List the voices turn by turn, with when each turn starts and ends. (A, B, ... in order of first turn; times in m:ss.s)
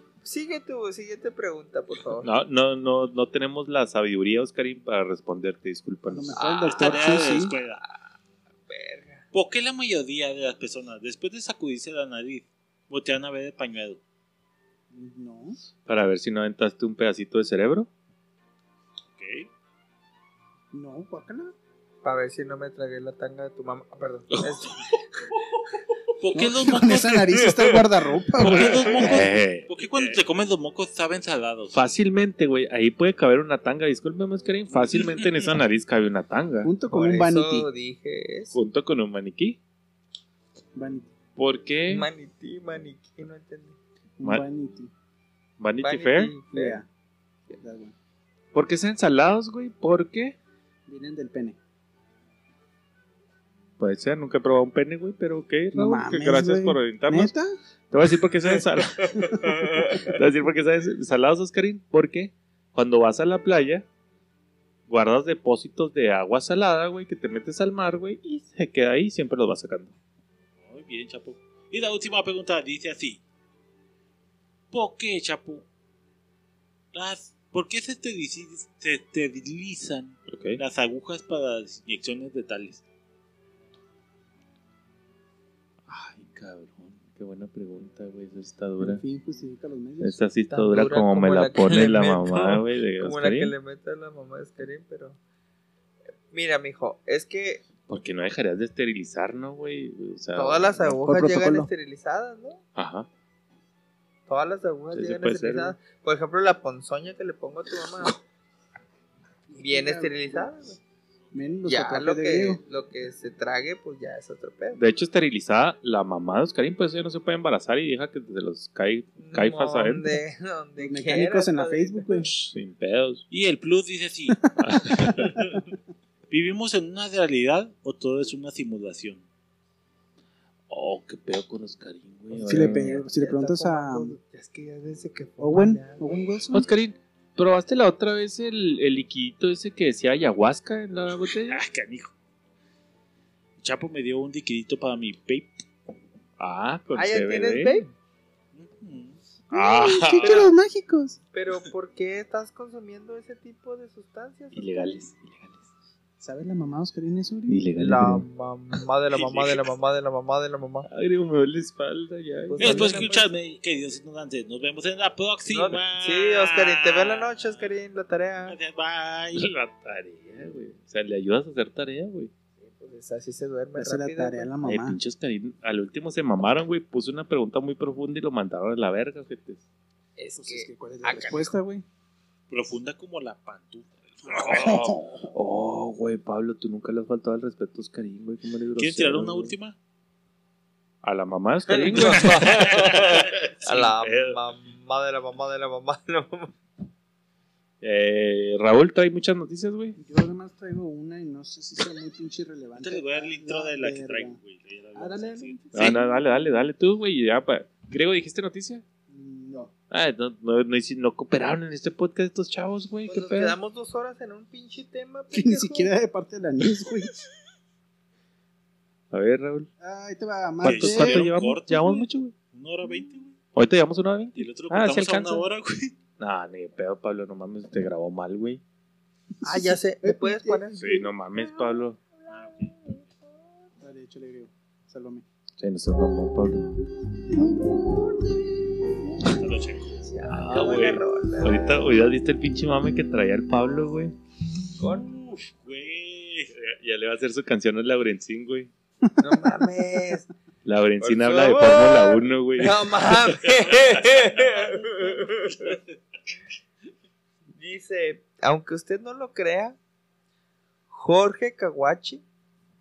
0:00.2-0:02.3 A
0:02.2-0:06.8 B
0:06.1-0:07.5 C
0:06.4-0:07.8 D
0:08.7-0:09.2 A
0:09.3-0:14.0 D
0:14.9-0:15.6 C
0:15.9-0:17.9 B
0:19.2-0:19.5 D
0:20.7-0:21.6 C
0:22.0-0:25.0 A
0:24.3-0:24.8 B
0:26.2-0:27.5 D
0:26.3-0:29.2 C
0:28.4-0:31.9 D
0:28.6-0:29.8 B
0:31.7-0:36.7 B
0:34.8-0:35.5 D
0:36.6-0:37.7 C
0:36.9-0:38.6 A
0:38.5-0:39.6 B
0:40.8-0:41.1 C
0:41.4-0:42.1 B
0:41.9-0:43.8 A
0:44.2-0:44.9 C
0:45.6-0:46.3 B
0:45.8-0:46.8 A
0:46.5-0:46.9 C
0:47.5-0:48.0 C
0:48.5-0:50.4 B
0:50.9-0:51.6 C
0:53.8-0:57.3 B
0:55.7-0:57.5 C
0:57.9-1:03.9 B
0:59.2-1:00.2 A
0:59.3-0:59.6 C
1:04.9-1:09.9 B
1:10.6-1:13.2 D
1:14.7-1:15.6 D
1:16.9-1:22.8 D
1:20.3-1:20.6 B
1:25.9-1:29.0 B
1:28.8-1:30.2 C
1:30.0-1:33.5 B
1:30.5-1:35.2 A
1:36.3-1:37.6 A
1:37.9-1:40.9 B
1:40.4-1:42.6 A
1:41.0-1:41.7 C
1:42.8-1:43.1 B
1:44.3-1:48.2 A
1:44.9-1:45.8 B
1:49.5-1:50.5 C
1:49.6-1:50.8 A
1:51.3-1:52.6 C
1:51.7-1:54.8 A
1:54.8-2:00.2 B
1:59.2-2:02.1 A
2:00.8-2:02.3 C
2:02.2-2:03.2 B
2:03.3-2:04.4 D
2:04.6-2:05.5 B
2:06.3-2:09.2 D
2:10.7-2:13.0 B
2:12.3-2:16.1 A
2:12.4-2:14.2 C
2:15.4-2:16.7 C
2:16.5-2:21.6 B
2:21.5-2:22.1 D
2:23.6-2:25.6 D
2:26.4-2:27.8 B
2:27.0-2:27.9 A
2:28.5-2:29.2 D
2:29.5-2:31.2 C
2:29.5-2:30.5 B
2:31.3-2:35.0 A
2:34.5-2:35.6 B
2:36.2-2:37.6 C
2:37.5-2:38.3 B
2:37.8-2:40.9 A
2:40.9-2:43.0 B
2:42.5-2:43.3 A
2:42.6-2:47.7 D
2:45.5-2:48.6 A
2:48.5-2:49.5 D
2:49.4-2:52.3 B
2:52.6-2:54.5 A
2:53.8-2:55.0 C
2:54.6-2:59.6 B
3:00.2-3:01.6 A
3:00.4-3:01.8 C
3:02.5-3:04.8 D
3:04.4-3:09.6 B
3:04.5-3:05.0 C
3:08.8-3:09.8 D
3:11.0-3:13.0 B
3:11.7-3:16.5 A
3:11.9-3:13.5 D
3:13.7-3:14.4 B
3:17.8-3:20.0 B
3:20.0-3:24.4 C
3:22.8-3:26.0 D
3:25.0-3:26.2 C
3:25.7-3:28.8 B
3:29.1-3:29.7 C
3:29.9-3:33.6 B
3:33.1-3:35.9 A
3:35.3-3:37.1 C
3:39.1-3:39.7 B
3:39.8-3:41.3 C
3:40.6-3:42.3 B
3:40.6-3:43.4 D
3:43.5-3:45.5 B
3:44.4-3:46.0 D
3:46.2-3:48.6 B
3:49.4-3:51.1 C
3:49.4-3:50.8 A
3:50.8-3:52.0 B
3:52.3-3:52.8 D
3:53.8-3:55.3 C
3:55.6-3:56.7 B
3:57.9-3:58.3 C
3:59.3-4:00.0 D
4:00.0-4:01.8 A
4:00.3-4:04.2 B
4:04.8-4:05.1 A
4:05.0-4:06.5 D
4:06.6-4:08.7 B
4:09.2-4:10.3 A
4:09.2-4:09.7 C
4:10.6-4:13.4 B
4:11.0-4:15.8 A
4:13.6-4:15.8 D
4:17.6-4:19.8 A
4:20.9-4:22.2 A